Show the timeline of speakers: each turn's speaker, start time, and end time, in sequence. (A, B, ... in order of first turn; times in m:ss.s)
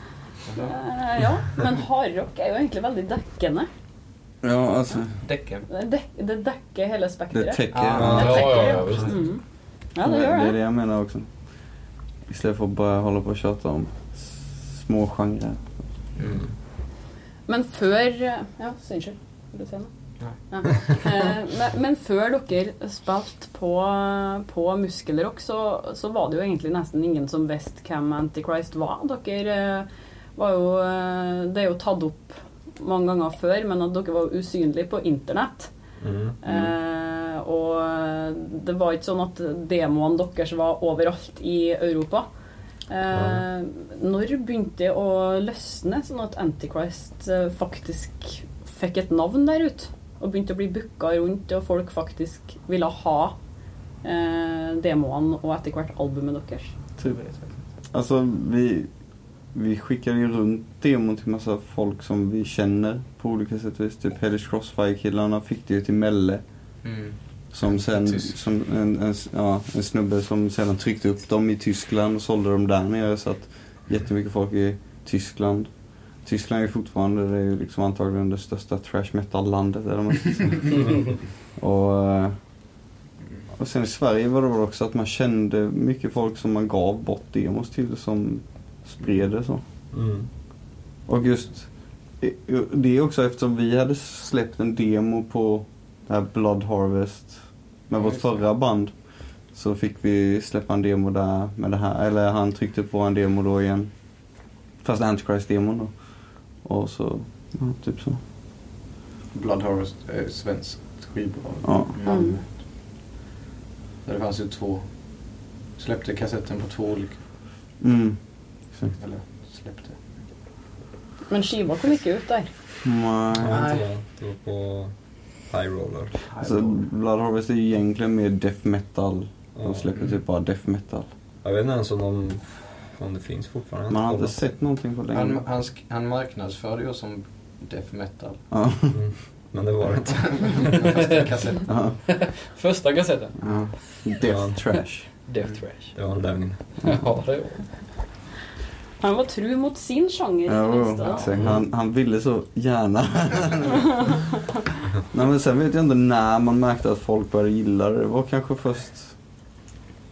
0:00.5-0:00.7 A
0:00.6-0:03.7 B
0:04.4-0:05.2 C
0:05.2-0:05.7 A
0:05.7-0:09.4 B
0:07.3-0:08.4 C
0:07.7-0:09.2 A
0:08.0-0:08.3 D
0:08.2-0:09.2 E
0:09.9-0:10.5 B
0:10.0-0:11.3 C
0:12.3-0:15.6 C
0:16.2-0:16.5 A
0:17.5-0:19.9 B
0:20.5-0:35.7 B
0:36.0-0:36.7 D
0:36.4-0:42.2 B
0:42.9-0:53.3 B
0:43.1-0:43.4 D
0:54.0-0:56.7 B
0:57.0-0:57.6 A
0:57.9-0:58.9 C
0:59.5-1:06.4 C
1:06.8-1:07.2 A
1:07.5-1:15.7 C
1:07.8-1:08.3 A
1:16.2-1:22.3 C
1:23.6-1:29.6 C
1:29.9-1:30.3 D
1:31.1-1:31.7 C
1:32.2-1:38.9 C
1:37.9-1:38.4 A
1:39.5-1:43.9 C
1:44.8-1:45.9 C
1:46.6-1:48.2 C
1:49.3-1:52.6 A
1:51.6-1:51.9 C
1:52.0-1:52.4 B
1:54.0-1:54.8 A
1:55.8-1:57.2 A
1:57.8-1:58.2 C
1:58.9-2:00.3 A
2:01.3-2:02.5 B
2:02.8-2:03.7 C
2:03.4-2:04.9 D
2:03.5-2:03.8 A
2:05.5-2:06.1 D
2:06.2-2:06.8 A
2:06.4-2:11.1 C
2:09.6-2:09.9 D
2:11.4-2:14.3 D
2:13.9-2:15.4 C
2:15.1-2:18.4 A
2:18.5-2:19.0 C
2:18.9-2:20.9 D
2:20.2-2:21.7 A
2:20.8-2:21.4 E
2:21.7-2:22.0 C
2:22.0-2:23.4 E
2:23.4-2:25.1 C
2:24.2-2:24.6 D
2:25.3-2:26.0 E
2:25.9-2:26.8 D
2:26.8-2:27.7 E
2:29.0-2:31.3 B
2:30.4-2:34.1 C
2:35.1-2:39.1 C